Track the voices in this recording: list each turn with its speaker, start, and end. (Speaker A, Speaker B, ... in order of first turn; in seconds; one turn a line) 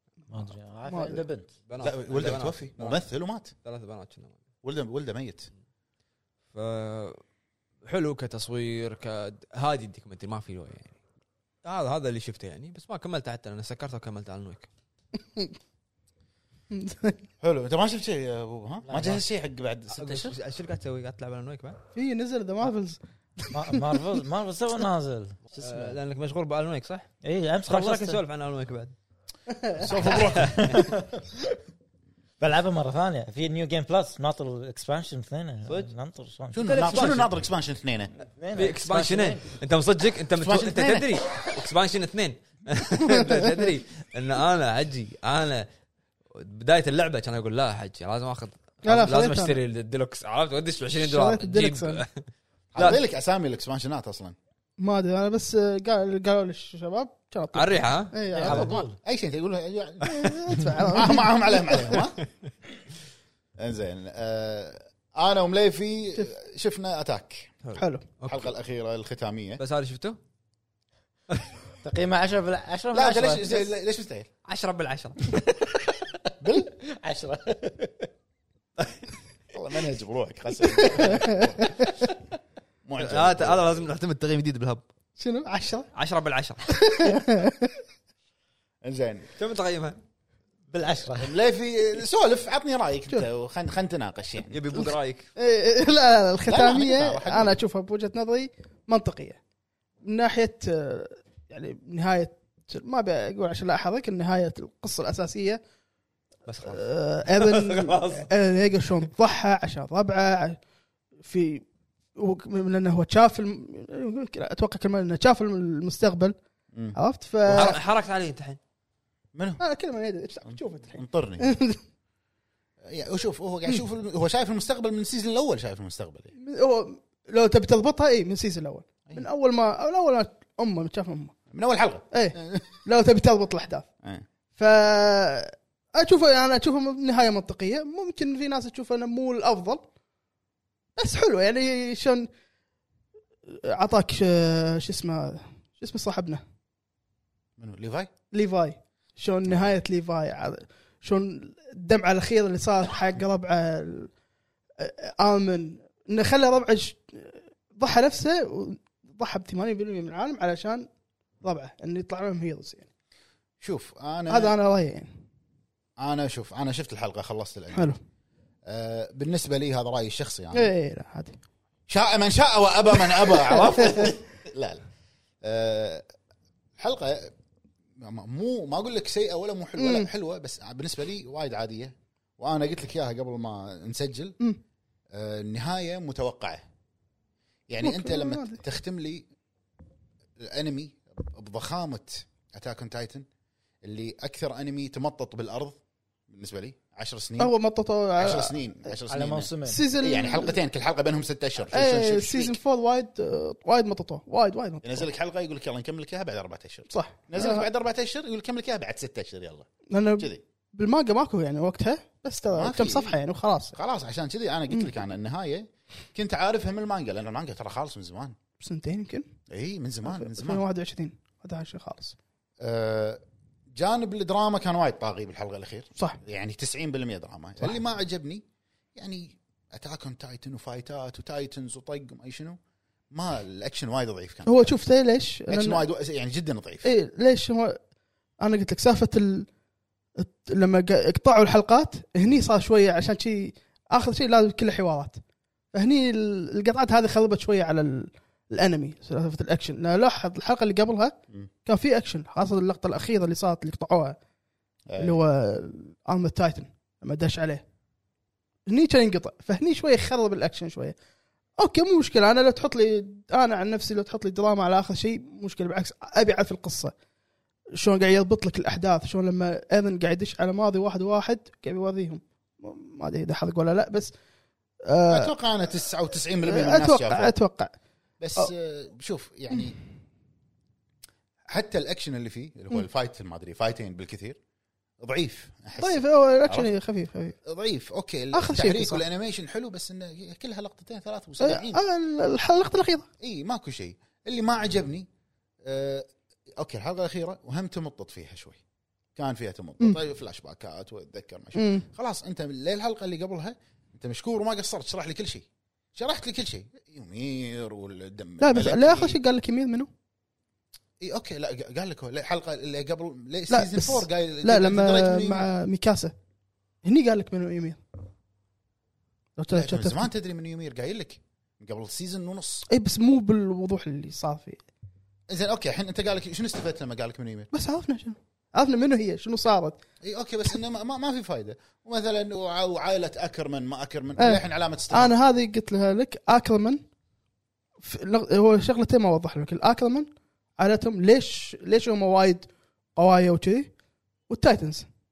Speaker A: 0.3-1.5
Speaker B: 0.9-1.2
Speaker C: 1.7-4.4
Speaker D: 1.8-3.5
Speaker D: 4.6-5.5
Speaker C: 6.5-7.2
Speaker C: 7.8-11.0
Speaker C: 11.6-14.7
Speaker B: 16.7-17.2
Speaker D: 17.4-20.4
Speaker A: 18.9-19.2
Speaker C: 19.9-21.8
Speaker B: 21.9-24.0
Speaker A: 23.5-26.0
Speaker C: 25.6-27.1
Speaker A: 27.2-28.2
Speaker C: 27.6-28.9
Speaker B: 29.5-29.9
Speaker D: 29.8-30.8
Speaker C: 30.0-30.9
Speaker A: 30.3-31.0
Speaker A: 32.4-37.2
Speaker C: 35.6-35.9
Speaker D: 36.5-38.1
Speaker C: 36.6-37.3
Speaker A: 38.2-39.5
Speaker C: 38.5-45.7
Speaker D: 40.4-41.1
Speaker C: 46.3-53.0
Speaker B: 48.8-49.6
Speaker B: 51.0-52.0
Speaker D: 52.7-54.3
Speaker B: 54.8-58.9
Speaker C: 57.5-58.6
Speaker A: 58.3-59.0
Speaker D: 58.5-62.2
Speaker B: 60.0-62.0
Speaker D: 63.6-67.5
Speaker C: 67.6-68.5
Speaker B: 67.8-68.0
Speaker D: 68.2-69.6
Speaker C: 69.6-70.2
Speaker A: 71.8-73.6
Speaker D: 72.9-74.3
Speaker C: 74.4-75.4
Speaker A: 75.6-76.1
Speaker D: 76.4-76.7
Speaker A: 76.7-78.1
Speaker D: 79.5-81.9
Speaker B: 80.8-81.6
Speaker D: 82.8-83.9
Speaker C: 83.0-84.8
Speaker B: 85.2-85.9
Speaker C: 85.9-86.7
Speaker B: 86.7-87.7
Speaker D: 88.8-89.3
Speaker C: 89.3-90.0
Speaker A: 90.7-91.3
Speaker D: 91.2-94.6
Speaker C: 94.5-95.3
Speaker B: 94.7-99.4
Speaker D: 96.5-97.6
Speaker B: 100.0-105.6
Speaker C: 106.5-108.3
Speaker B: 106.7-110.6
Speaker B: 111.2-111.6
Speaker B: 112.2-116.3
Speaker B: 116.9-117.8
Speaker C: 117.5-118.6
Speaker D: 119.3-119.6
Speaker B: 119.6-121.8
Speaker D: 120.5-121.5
Speaker D: 122.8-126.3
Speaker B: 126.3-131.3
Speaker D: 131.5-132.8
Speaker B: 132.1-133.9
Speaker B: 134.6-139.8
Speaker B: 141.0-142.3
Speaker B: 143.4-146.4
Speaker D: 147.6-148.1
Speaker B: 148.3-154.1
Speaker D: 149.5-149.8
Speaker B: 154.8-160.9
Speaker B: 161.4-162.9
Speaker D: 163.6-164.6
Speaker B: 164.3-165.1
Speaker D: 166.0-167.9
Speaker B: 167.7-168.0
Speaker D: 168.7-170.7
Speaker B: 170.5-171.4
Speaker D: 171.9-174.8
Speaker B: 173.3-174.1
Speaker D: 175.4-176.1
Speaker D: 176.8-177.3
Speaker D: 178.0-184.4
Speaker B: 179.8-180.1
Speaker D: 185.1-186.7
Speaker D: 187.7-189.3
Speaker B: 187.8-188.6
Speaker D: 190.4-193.2
Speaker D: 193.8-197.5
Speaker B: 197.4-198.6
Speaker D: 198.2-202.6
Speaker A: 199.1-199.8
Speaker B: 199.7-200.6
Speaker B: 201.7-205.1
Speaker D: 204.8-210.4
Speaker B: 206.9-207.7
Speaker B: 209.9-213.8
Speaker D: 212.5-213.2
Speaker D: 213.7-218.3
Speaker B: 218.6-219.3
Speaker D: 219.5-220.6
Speaker B: 220.1-222.1
Speaker D: 222.6-223.2
Speaker D: 223.7-228.4
Speaker D: 228.9-232.6
Speaker D: 233.1-234.8
Speaker B: 234.4-235.8
Speaker D: 235.5-236.9
Speaker B: 236.8-237.8
Speaker B: 238.4-239.5
Speaker B: 240.2-245.2
Speaker B: 245.7-251.1
Speaker B: 251.7-254.2
Speaker D: 254.9-255.2
Speaker B: 255.0-257.6
Speaker B: 258.7-260.9
Speaker B: 261.6-266.9
Speaker B: 267.7-274.1
Speaker B: 274.9-275.3
Speaker D: 275.1-277.3
Speaker B: 276.4-277.7
Speaker D: 278.2-279.8
Speaker D: 281.5-284.4
Speaker D: 285.0-286.7
Speaker B: 285.8-287.4
Speaker D: 287.4-291.8
Speaker B: 288.3-289.0
Speaker B: 291.4-293.1
Speaker D: 293.2-295.1
Speaker D: 295.6-298.6
Speaker D: 299.1-309.2
Speaker B: 301.5-301.9
Speaker B: 308.4-309.9
Speaker D: 311.0-315.5
Speaker B: 313.5-316.1
Speaker B: 316.8-317.8
Speaker B: 319.4-320.1
Speaker D: 319.5-322.7
Speaker B: 322.7-324.6
Speaker D: 325.3-327.5
Speaker B: 327.5-329.8
Speaker D: 330.0-335.1
Speaker B: 334.2-336.8
Speaker B: 337.8-343.7
Speaker B: 344.3-344.9